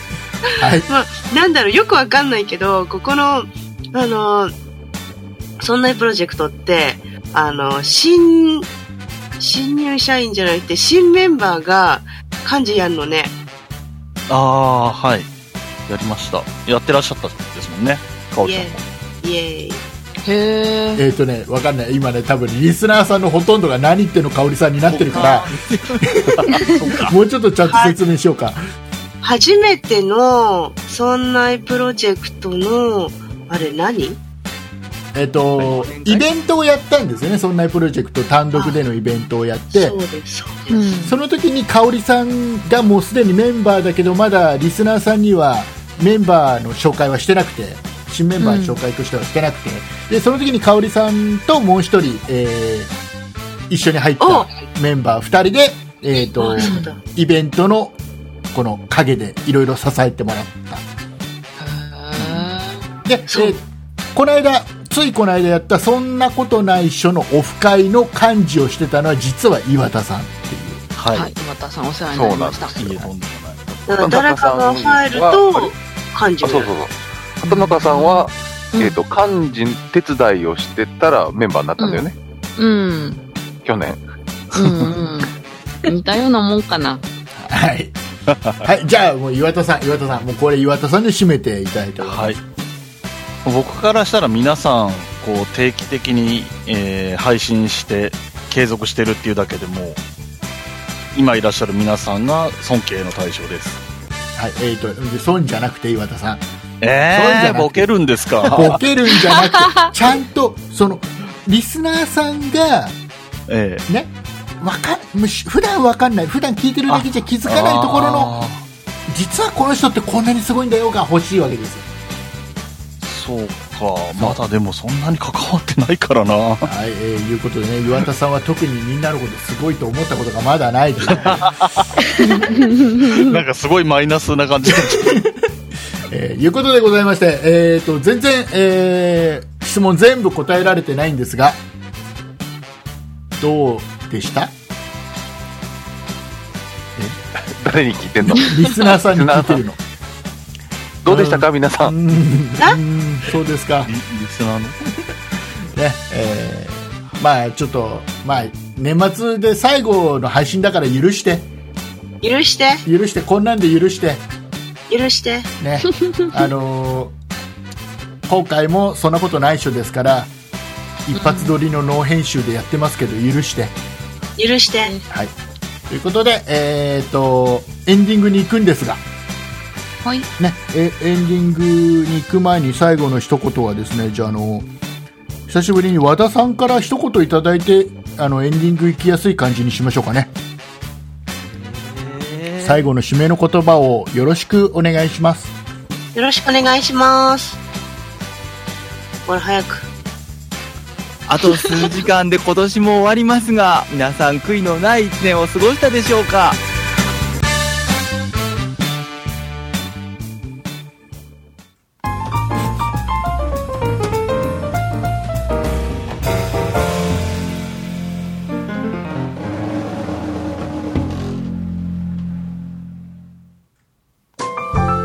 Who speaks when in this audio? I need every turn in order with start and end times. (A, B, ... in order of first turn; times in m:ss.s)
0:00.6-0:00.9 A
0:00.8-0:04.5 B
0:05.6-0:08.7 B
0:09.4-0:13.3 B
0:14.3-0:15.3 C
0:15.9-0:18.8 C
0:18.4-0:19.8 B
0:20.2-0:21.0 D
0:21.0-0:28.6 A
0:24.9-0:26.0 E
0:26.3-0:27.1 C
0:27.7-0:28.0 B
0:29.2-0:34.2 B
0:35.1-0:40.0 A
0:35.6-0:36.2 E
0:38.5-0:38.8 B
0:39.7-0:40.9 B
0:40.7-0:41.2 D
0:41.0-0:52.9 A
0:48.4-0:48.8 D
0:53.7-0:58.0 A
0:54.2-0:54.6 B
0:56.4-0:57.0 B
0:56.6-0:56.9 D
0:58.5-1:00.8 A
1:01.6-1:02.8 D
1:03.0-1:03.6 A
1:03.3-1:03.6 B
1:04.1-1:10.8 A
1:11.0-1:11.3 C
1:11.1-1:13.0 D
1:12.1-1:12.8 F
1:12.8-1:13.7 C
1:13.8-1:15.7 F
1:13.9-1:16.7 B
1:16.4-1:22.1 F
1:17.4-1:19.0 D
1:21.8-1:23.2 D
1:23.6-1:24.0 F
1:24.5-1:25.3 D
1:25.8-1:27.0 D
1:27.4-1:28.0 A
1:28.6-1:32.4 A
1:32.0-1:32.4 C
1:33.4-1:40.0 C
1:41.1-1:43.8 C
1:44.4-1:46.4 A
1:46.8-1:48.8 C
1:47.1-1:47.9 A
1:48.4-1:52.9 A
1:49.2-1:49.9 D
1:53.5-1:53.8 C
1:53.8-1:58.3 A
1:56.9-1:58.6 C
1:59.1-2:01.9 A
2:03.0-2:06.7 C
2:06.6-2:11.5 A
2:11.1-2:11.8 C
2:12.5-2:13.3 D
2:12.9-2:15.2 C
2:14.7-2:15.3 A
2:16.1-2:21.6 A
2:23.4-2:24.5 A
2:27.6-2:29.6 F
2:28.2-2:29.8 A
2:31.0-2:31.9 F
2:31.0-2:33.9 A
2:33.8-2:34.8 C
2:35.7-2:41.5 A
2:42.2-2:42.8 B
2:42.8-2:44.2 A
2:44.9-2:45.5 B
2:45.6-2:47.1 A
2:48.3-2:50.3 A
2:51.1-2:53.8 A
2:51.1-2:51.5 D
2:54.4-2:54.9 B
2:55.9-2:59.0 A
3:00.0-3:00.3 D
3:00.4-3:04.7 A
3:05.5-3:10.3 A
3:11.5-3:12.8 E
3:12.6-3:15.5 A
3:16.1-3:17.6 B
3:19.2-3:19.9 B
3:21.3-3:26.6 E